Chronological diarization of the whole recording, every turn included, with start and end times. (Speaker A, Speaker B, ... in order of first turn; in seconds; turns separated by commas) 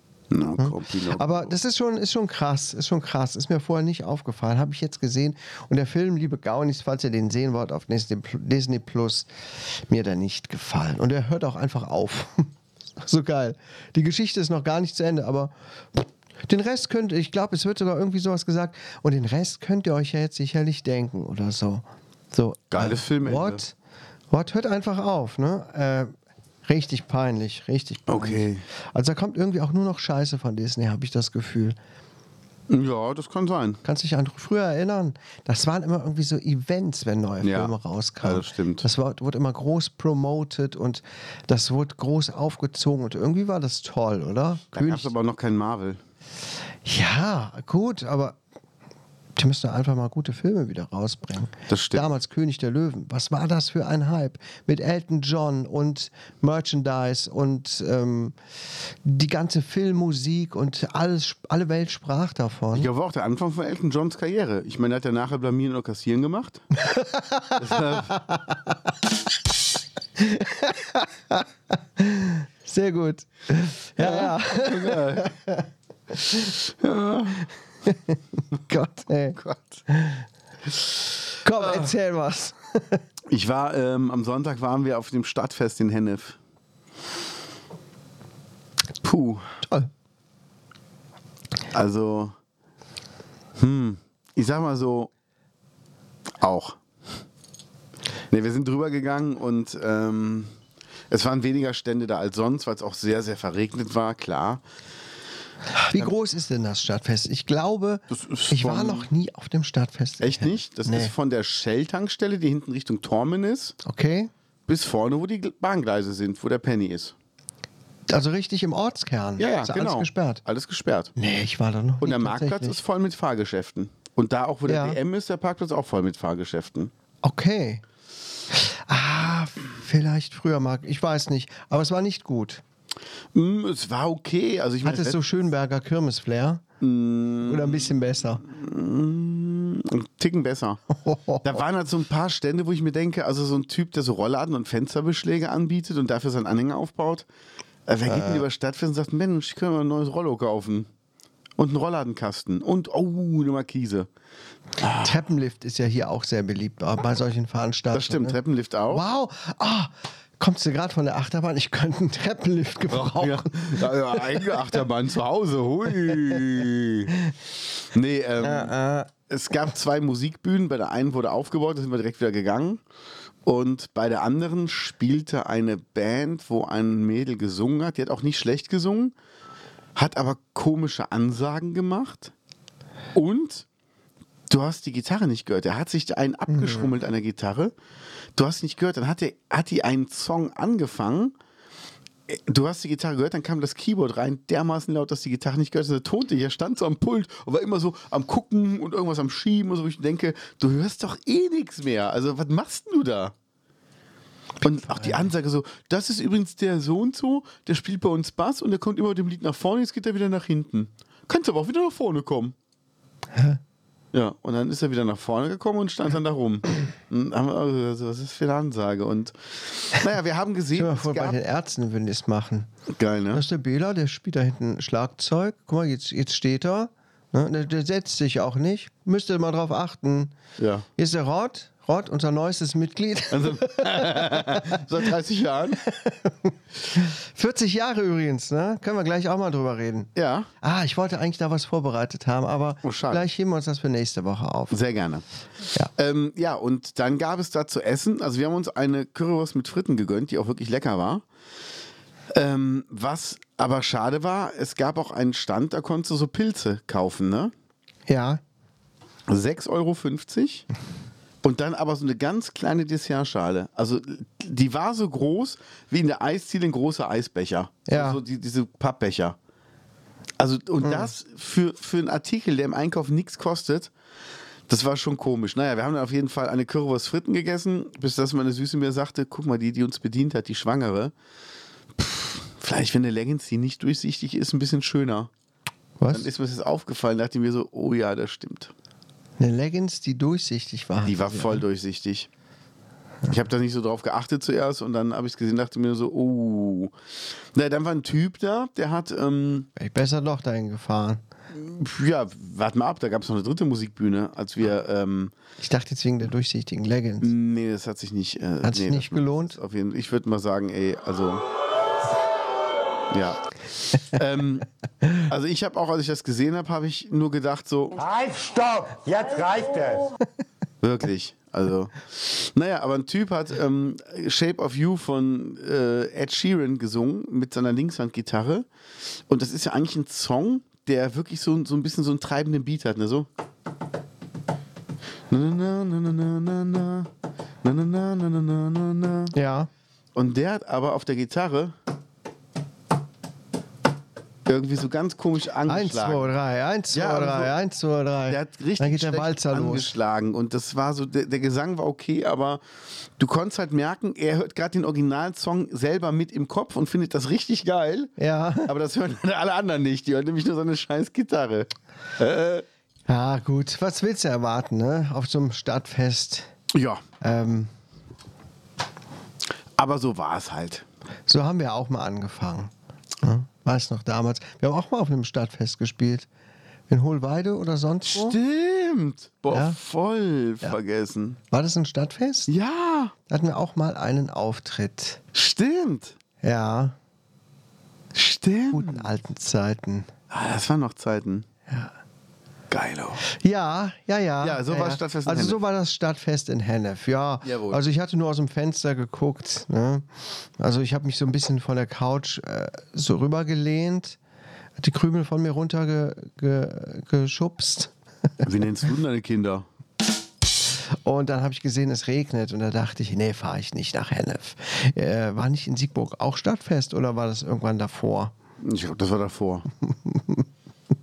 Speaker A: 0.3-1.5, Speaker B: 0.6-12.5, Speaker B: 13.0-23.8, Speaker A: 22.7-23.6, Speaker B: 24.3-26.1, Speaker B: 26.6-31.8, Speaker A: 28.1-28.7, Speaker A: 32.7-33.8, Speaker B: 33.8-45.1, Speaker A: 37.4-38.9, Speaker A: 44.7-46.0, Speaker B: 46.9-48.4, Speaker B: 49.4-58.4, Speaker A: 51.7-52.1, Speaker B: 59.0-62.9, Speaker A: 62.7-66.6, Speaker B: 66.8-68.7, Speaker A: 67.6-68.1, Speaker B: 70.2-71.5, Speaker B: 72.0-75.7, Speaker A: 74.0-75.3, Speaker A: 76.5-77.5, Speaker B: 77.9-80.2, Speaker A: 79.4-79.8, Speaker B: 81.4-83.0, Speaker A: 81.6-81.9, Speaker A: 83.3-86.4, Speaker A: 89.0-89.5, Speaker B: 89.6-89.9, Speaker A: 91.7-92.3, Speaker A: 93.6-95.1, Speaker A: 96.4-96.8, Speaker A: 98.3-100.5, Speaker A: 101.1-104.6, Speaker B: 105.7-111.1, Speaker A: 108.1-109.1, Speaker A: 110.2-113.8, Speaker B: 113.8-114.3, Speaker A: 114.7-117.2, Speaker B: 118.1-120.4, Speaker A: 119.4-121.1, Speaker B: 121.2-122.8, Speaker A: 122.0-126.9, Speaker B: 124.7-125.0, Speaker B: 127.2-127.8, Speaker B: 128.5-132.6, Speaker A: 133.3-135.2, Speaker B: 134.8-136.6, Speaker A: 136.8-140.8, Speaker B: 137.4-138.4, Speaker B: 140.9-141.6, Speaker A: 141.4-147.3, Speaker A: 147.9-150.9, Speaker B: 148.1-148.4, Speaker A: 151.6-154.1, Speaker A: 154.8-155.1, Speaker B: 155.0-158.4, Speaker A: 157.9-159.1, Speaker B: 158.9-164.7, Speaker A: 162.9-167.1, Speaker A: 167.9-168.7, Speaker B: 168.4-169.1, Speaker A: 169.3-172.8, Speaker A: 173.4-179.2, Speaker A: 180.0-182.3, Speaker A: 183.1-183.7, Speaker A: 184.5-187.7, Speaker B: 186.5-186.9, Speaker A: 188.4-191.3, Speaker A: 192.3-203.3, Speaker A: 204.6-212.6, Speaker B: 204.9-205.2, Speaker B: 213.3-213.6, Speaker A: 214.1-221.4, Speaker B: 220.7-222.7, Speaker A: 222.9-223.4, Speaker B: 223.3-230.4, Speaker A: 230.6-230.9, Speaker B: 231.0-234.8, Speaker A: 233.3-235.8, Speaker B: 235.8-240.1, Speaker A: 240.2-240.5, Speaker B: 240.6-244.8, Speaker A: 242.8-243.3, Speaker A: 244.7-245.2, Speaker A: 246.0-251.2, Speaker A: 252.3-257.5, Speaker B: 258.1-258.4, Speaker A: 259.3-260.7, Speaker A: 261.4-269.4, Speaker B: 267.9-268.2, Speaker A: 270.4-273.9, Speaker B: 270.8-271.1, Speaker A: 274.7-281.1, Speaker A: 282.0-285.3, Speaker B: 286.0-286.3, Speaker A: 286.1-288.7, Speaker B: 289.4-291.6, Speaker A: 291.0-292.3, Speaker A: 293.3-296.9, Speaker A: 297.5-299.7, Speaker B: 299.8-301.2, Speaker A: 301.5-305.3, Speaker B: 305.6-307.3, Speaker A: 307.2-311.4, Speaker B: 308.6-309.6, Speaker A: 313.1-318.0, Speaker C: 318.0-320.1, Speaker A: 320.8-328.7, Speaker A: 329.3-333.3, Speaker A: 335.3-337.1, Speaker A: 337.6-339.3, Speaker B: 339.3-339.7, Speaker A: 340.1-341.8, Speaker A: 344.5-346.3, Speaker B: 345.7-349.9, Speaker A: 346.9-347.5, Speaker A: 348.3-352.6, Speaker A: 353.2-358.1, Speaker B: 358.2-358.7, Speaker A: 358.6-362.6, Speaker B: 363.1-366.5, Speaker A: 366.7-367.0, Speaker B: 367.2-367.7, Speaker A: 369.8-370.9, Speaker B: 371.3-376.3, Speaker B: 376.9-378.4, Speaker A: 378.1-381.4, Speaker B: 379.5-379.8, Speaker B: 381.5-382.5, Speaker A: 382.5-383.1, Speaker B: 383.3-385.2, Speaker A: 385.4-386.2, Speaker B: 386.4-387.0, Speaker A: 388.1-389.1, Speaker B: 388.7-390.1, Speaker A: 390.3-391.5, Speaker B: 391.7-391.9, Speaker A: 392.7-393.2, Speaker B: 393.3-400.1, Speaker A: 394.4-395.6, Speaker A: 397.4-397.8, Speaker B: 400.6-404.2, Speaker B: 404.8-407.9, Speaker A: 408.4-409.7, Speaker B: 411.0-418.3, Speaker A: 418.6-419.7, Speaker B: 419.8-420.4